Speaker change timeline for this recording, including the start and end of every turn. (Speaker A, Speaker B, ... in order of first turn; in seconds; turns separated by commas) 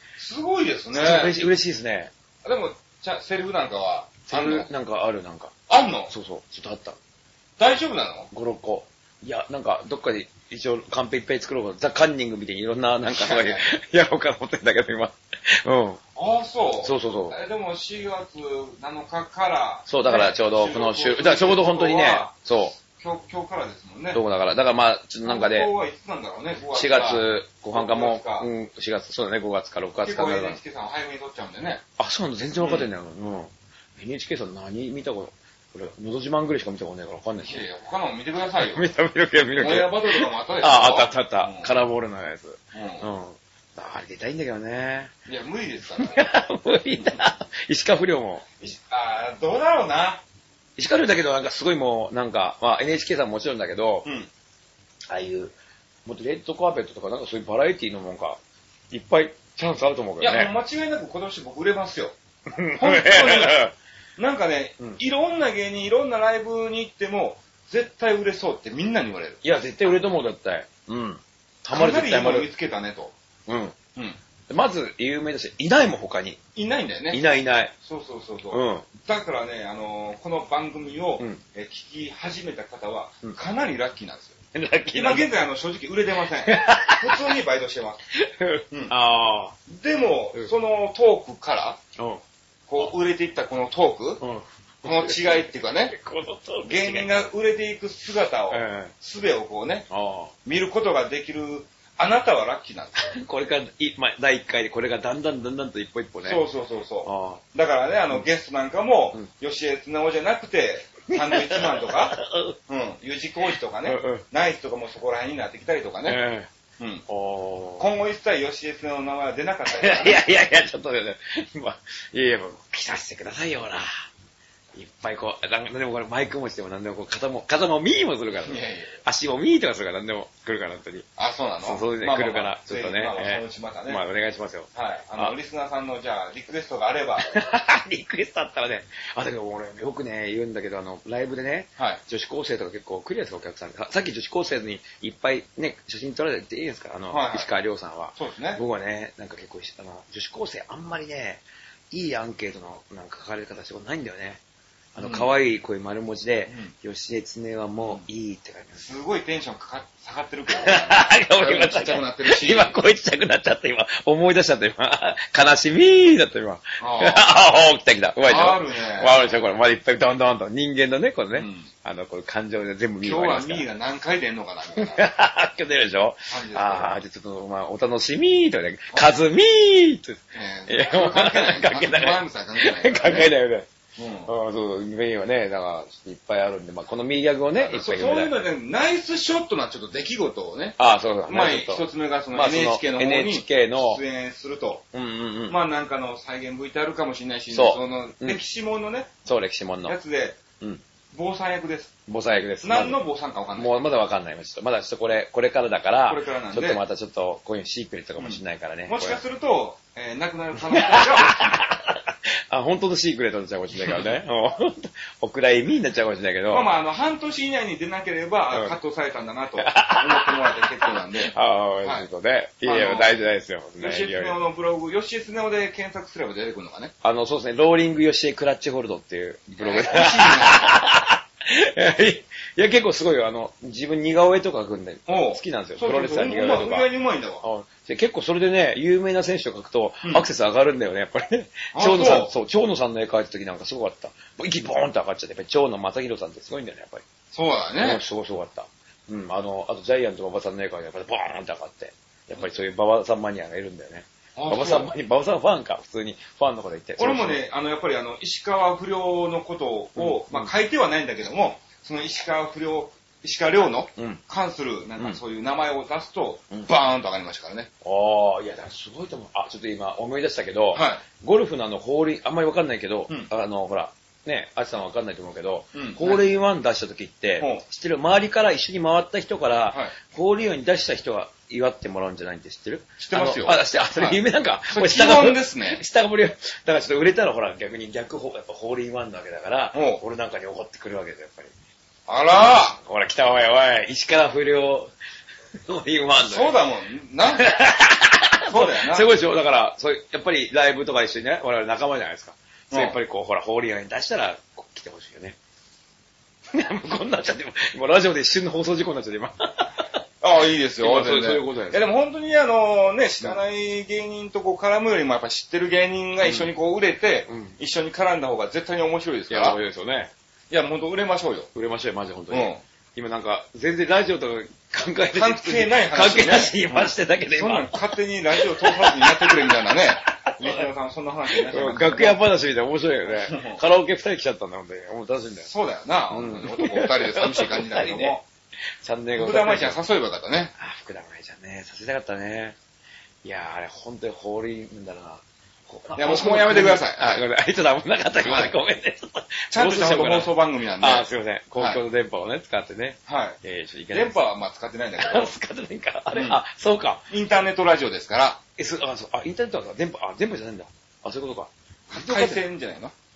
Speaker A: 0.2-1.4, Speaker B: 0.9-2.1, Speaker A: 2.4-4.7, Speaker B: 4.3-5.5, Speaker A: 5.7-6.1, Speaker B: 6.1-7.0, Speaker A: 7.6-8.3, Speaker B: 8.3-16.0, Speaker A: 13.1-13.7, Speaker A: 16.1-24.2, Speaker B: 16.8-17.4, Speaker B: 19.9-22.8, Speaker B: 24.1-25.7, Speaker A: 25.2-28.5, Speaker B: 26.7-30.6, Speaker A: 30.0-31.8, Speaker B: 32.0-37.6, Speaker A: 32.6-32.9, Speaker A: 37.4-38.9, Speaker B: 38.7-45.1, Speaker A: 39.6-41.7, Speaker A: 42.7-43.1, Speaker A: 45.3-46.2, Speaker B: 46.0-48.5, Speaker A: 48.6-50.2, Speaker B: 50.8-54.1, Speaker B: 55.1-55.5, Speaker B: 56.1-58.4, Speaker B: 58.9-60.5, Speaker A: 60.2-62.1, Speaker B: 62.5-63.7, Speaker A: 62.8-63.6, Speaker A: 64.2-69.4, Speaker B: 69.4-72.5, Speaker A: 71.7-73.1, Speaker B: 73.5-73.8, Speaker B: 74.5-76.4, Speaker A: 76.5-77.2, Speaker B: 77.1-77.7, Speaker A: 77.8-84.3, Speaker B: 78.5-78.9, Speaker B: 84.5-85.3, Speaker A: 84.9-88.0, Speaker B: 86.4-87.3, Speaker B: 88.1-89.5, Speaker A: 89.7-91.8, Speaker B: 92.0-92.2, Speaker A: 92.7-94.2, Speaker B: 94.2-97.2, Speaker A: 94.8-95.9, Speaker A: 96.6-99.9, Speaker B: 98.5-98.9, Speaker B: 99.9-100.3, Speaker A: 100.5-103.0, Speaker B: 103.0-106.4, Speaker A: 106.2-112.2, Speaker B: 107.0-107.4, Speaker B: 111.1-112.6, Speaker A: 112.7-116.2, Speaker B: 113.8-114.2, Speaker B: 116.0-116.5, Speaker B: 117.1-117.9, Speaker A: 117.8-120.2, Speaker B: 119.7-124.0, Speaker B: 124.8-131.1, Speaker A: 128.4-128.9, Speaker A: 131.2-134.0, Speaker B: 131.6-135.3, Speaker A: 134.8-137.3, Speaker B: 137.2-154.4, Speaker A: 147.1-147.5, Speaker A: 148.2-148.6, Speaker B: 154.9-158.8, Speaker A: 155.0-155.3, Speaker A: 158.8-162.7, Speaker B: 160.5-173.7, Speaker A: 166.8-167.2, Speaker A: 168.2-169.4, Speaker A: 171.4-171.7, Speaker A: 173.0-175.0, Speaker B: 174.8-183.7, Speaker A: 176.3-177.0, Speaker A: 180.3-183.3, Speaker A: 184.0-184.3, Speaker B: 184.2-188.3, Speaker A: 187.6-194.8, Speaker B: 190.8-194.0, Speaker B: 194.9-195.6, Speaker A: 195.5-199.1, Speaker B: 197.5-198.4, Speaker B: 199.2-200.0, Speaker A: 199.9-200.4, Speaker A: 201.1-201.9, Speaker B: 202.1-203.0, Speaker A: 202.6-203.7, Speaker B: 203.5-209.2, Speaker A: 206.1-206.8, Speaker A: 208.2-211.6, Speaker B: 210.6-216.7, Speaker A: 213.8-214.1, Speaker A: 216.5-222.1, Speaker B: 219.6-224.4, Speaker A: 222.6-223.2, Speaker A: 223.8-226.9, Speaker B: 227.0-236.9, Speaker A: 229.6-230.6, Speaker A: 235.1-237.4, Speaker B: 237.4-247.0, Speaker A: 241.7-242.3, Speaker A: 247.3-248.0, Speaker B: 247.8-257.4, Speaker A: 254.3-254.9, Speaker A: 257.0-267.7, Speaker B: 260.0-260.5, Speaker B: 264.0-264.2, Speaker B: 267.8-291.5, Speaker A: 270.7-271.0, Speaker A: 275.7-276.3, Speaker A: 283.0-285.8, Speaker A: 289.7-290.0, Speaker A: 292.1-292.8, Speaker B: 292.4-294.9, Speaker B: 295.7-296.6, Speaker A: 296.2-297.5, Speaker B: 297.3-305.4, Speaker A: 298.4-299.1, Speaker A: 302.7-303.0, Speaker B: 306.5-309.9, Speaker A: 310.2-319.6, Speaker B: 310.8-311.8, Speaker B: 316.2-316.5, Speaker B: 317.3-317.6, Speaker B: 319.3-320.1, Speaker A: 320.5-321.5, Speaker B: 321.5-330.7, Speaker A: 322.3-322.6, Speaker A: 325.1-332.2, Speaker B: 331.3-335.5, Speaker A: 333.1-333.6, Speaker A: 335.4-338.2, Speaker B: 336.1-338.2, Speaker B: 338.8-339.8, Speaker A: 339.2-340.5, Speaker B: 340.6-342.6, Speaker B: 343.2-354.2, Speaker A: 345.9-347.2, Speaker A: 348.2-348.5, Speaker A: 349.5-351.8, Speaker A: 353.1-353.4, Speaker A: 353.9-355.3, Speaker B: 355.0-357.1, Speaker A: 356.1-356.4, Speaker A: 357.1-358.4, Speaker B: 358.6-362.4, Speaker A: 361.9-362.9